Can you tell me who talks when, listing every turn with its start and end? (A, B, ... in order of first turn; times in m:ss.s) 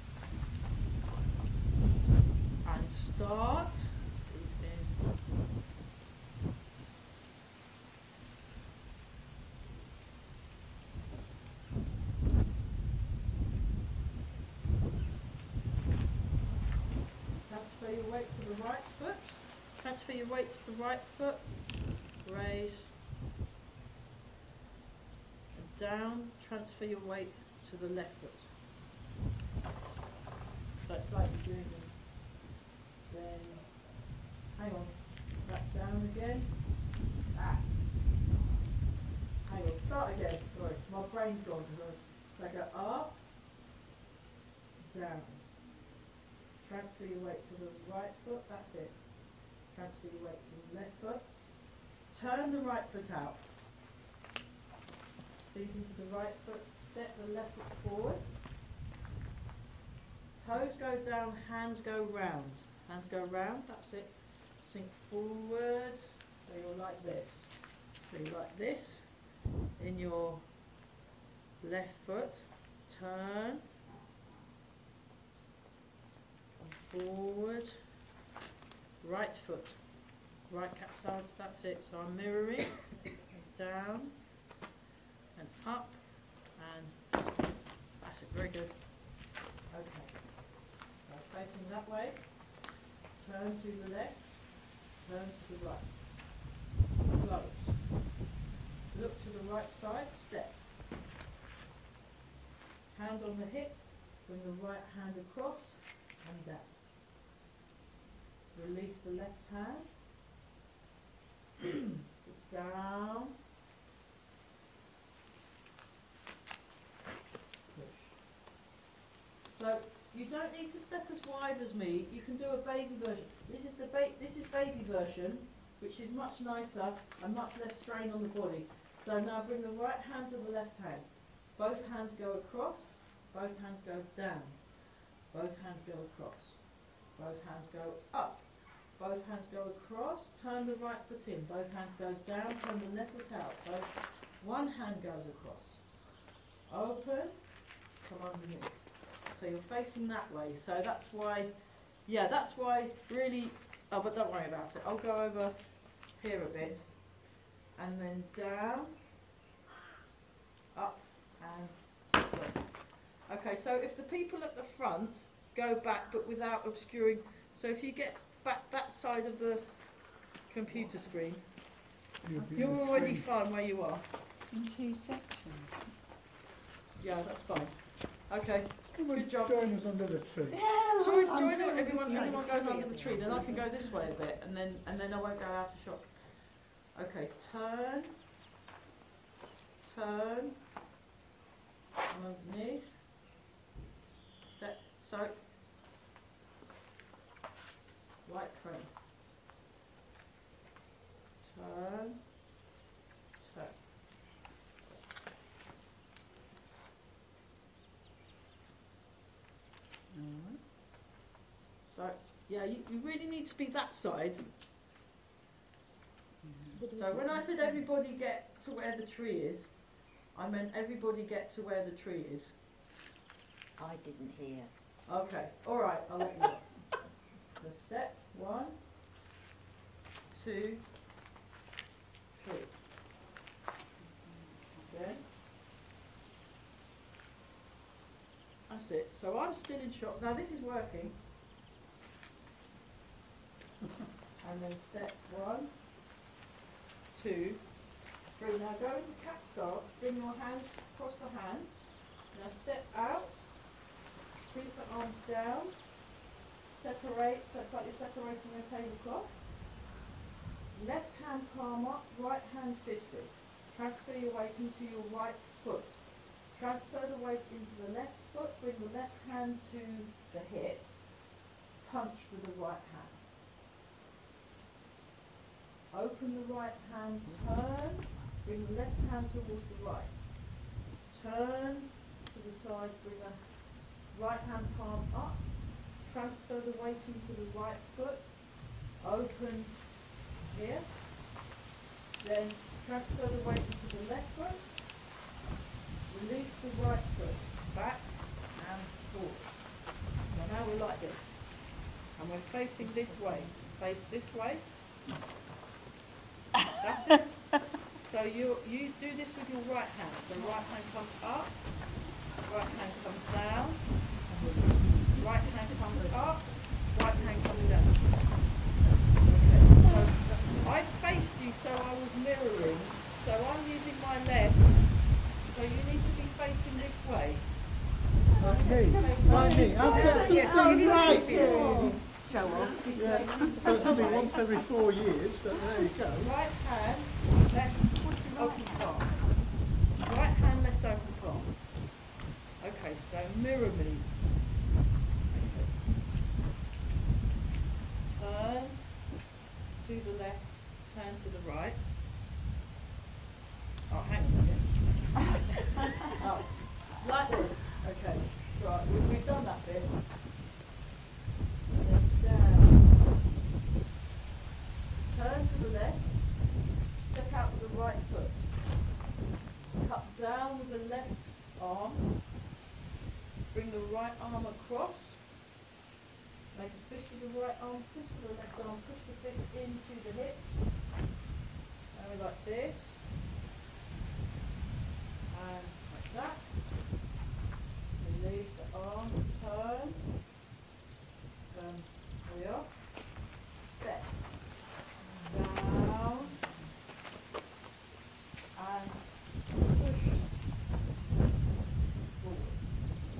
0:02.6-0:05.0 A
0:17.4-0:23.0 A
0:25.5-0:28.5 A
0:29.8-0:32.3 A
0:33.1-0:37.7 A
0:39.4-0:43.2 A
0:44.8-0:45.5 A
0:46.6-0:53.4 A
0:55.4-0:58.3 A
1:00.4-1:09.2 A
1:09.8-1:10.5 A
1:11.6-1:13.6 A
1:16.6-1:17.8 A
1:19.0-1:24.2 A
1:25.3-1:27.4 A
1:28.0-1:36.4 A
1:37.0-1:38.0 A
1:38.9-1:40.6 A
1:42.9-1:46.7 A
1:48.5-1:50.0 A
1:51.6-1:53.3 A
1:57.7-1:58.2 A
1:59.5-2:26.0 A
2:26.7-2:37.1 A
2:37.7-2:39.0 A
2:40.7-2:51.5 A
2:52.2-2:53.3 B
2:52.3-2:53.1 C
2:52.5-2:54.0 A
2:54.5-2:55.9 C
2:57.0-2:59.7 A
2:58.9-3:00.7 B
3:00.5-3:04.0 C
3:01.0-3:08.2 A
3:02.1-3:03.7 D
3:09.8-3:10.6 A
3:12.1-3:13.0 A
3:14.5-3:15.4 A
3:18.2-3:18.9 A
3:21.4-3:22.2 A
3:23.4-3:23.8 A
3:30.1-3:30.6 B
3:31.8-3:34.6 A
3:36.4-3:36.8 B
3:36.7-3:37.6 D
3:36.9-3:42.6 A
3:43.8-3:44.7 D
3:45.0-3:46.8 A
3:47.5-3:48.8 A
3:50.3-3:50.9 A
3:52.3-3:52.8 A
3:54.0-3:55.0 C
3:54.9-3:55.2 A
3:58.7-4:01.2 A
4:04.4-4:05.8 A
4:07.1-4:13.7 A
4:14.4-4:15.9 A
4:16.7-4:19.5 A
4:20.7-4:31.2 A
4:31.8-4:33.2 A
4:35.9-4:40.3 A
4:41.1-4:51.1 A
4:52.2-4:54.8 A
4:56.1-5:04.7 A
5:03.1-5:03.5 C
5:06.8-5:14.1 A
5:14.2-5:15.2 B
5:15.1-5:18.1 A
5:19.2-5:27.8 A
5:19.8-5:20.7 C
5:28.4-5:32.1 B
5:28.4-5:34.6 A
5:28.6-5:34.1 C
5:28.6-5:33.9 D
5:32.9-5:36.4 B
5:36.1-5:39.2 A
5:38.0-5:39.5 C
5:40.0-5:41.9 A
5:42.6-5:44.1 A
5:45.3-5:45.8 A
5:48.0-5:49.1 A
5:49.8-5:51.9 A
5:53.9-5:55.2 A
5:56.1-6:00.0 A
6:01.8-6:02.9 A
6:05.0-6:08.8 A
6:09.7-6:12.1 A
6:13.5-6:15.3 A
6:16.5-6:20.5 A
6:21.9-6:23.0 A
6:25.3-6:26.6 A
6:28.0-6:30.0 A
6:31.5-6:34.4 A
6:35.1-6:35.5 C
6:35.3-6:36.3 A
6:38.5-6:40.3 A
6:42.1-6:42.6 A